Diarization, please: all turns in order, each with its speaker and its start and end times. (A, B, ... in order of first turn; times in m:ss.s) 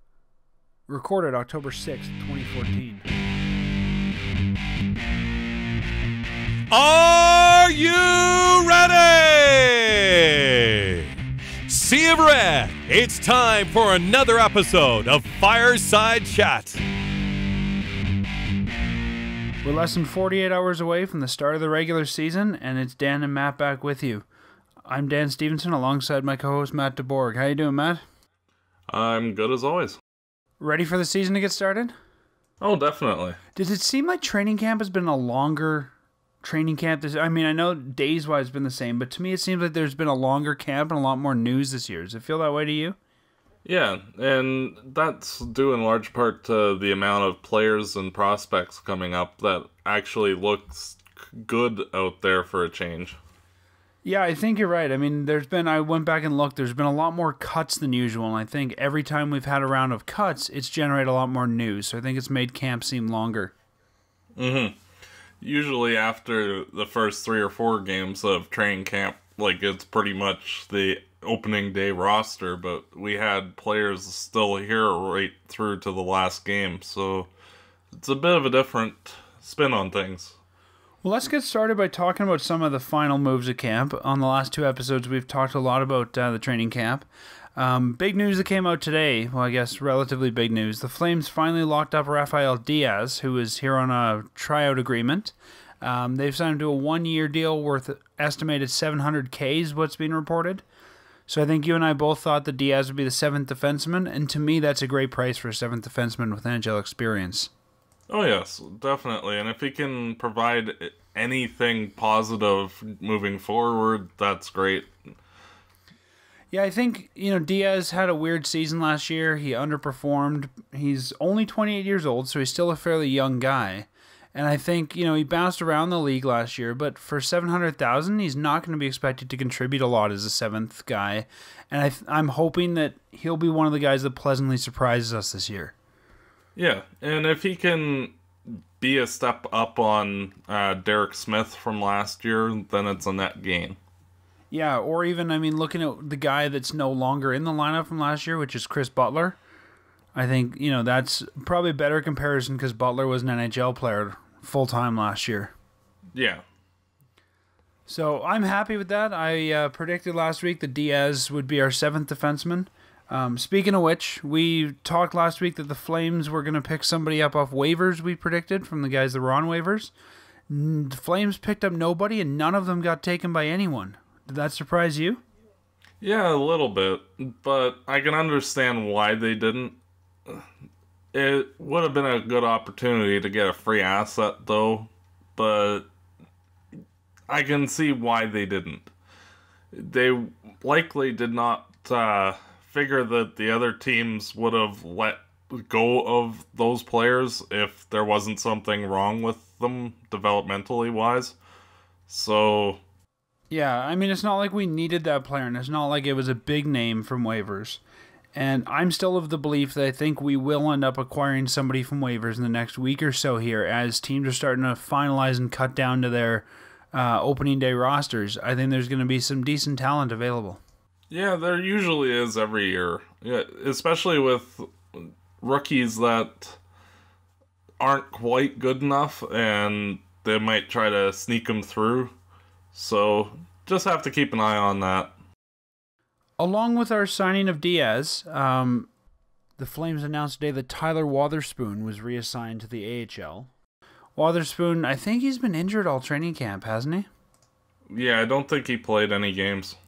0:00.9-0:03.0 A
0:06.7-0:11.0 B
0:11.7-0:16.8 B
0:19.6-0:24.2 A
0:24.8-0:28.0 A
0:28.9-0:30.0 C
0:30.6-0:31.9 A
0:32.6-0:33.4 C
0:33.6-0:43.0 A
0:43.6-0:53.2 C
0:54.0-1:03.5 A
1:04.4-1:04.8 C
1:05.4-1:17.3 C
1:17.9-1:20.4 C
1:21.0-1:40.6 A
1:41.3-1:47.5 A
1:48.1-1:55.1 C
1:56.5-2:15.7 A
2:16.6-2:23.8 C
2:24.5-2:29.4 A
2:30.2-2:35.5 A
2:36.1-2:36.4 C
2:37.9-2:49.9 A
2:50.5-2:55.2 A
2:56.0-3:00.4 C
3:01.1-3:05.9 C
3:07.3-3:08.9 C
3:09.7-3:21.4 C
3:22.1-3:22.8 C
3:23.5-3:27.8 A
3:28.4-3:40.6 A
3:41.1-3:46.6 C
3:47.8-3:52.1 C
3:52.7-3:55.1 C
3:56.4-3:58.9 A
3:59.6-4:03.5 A
4:04.2-4:07.1 A
4:07.9-4:09.8 C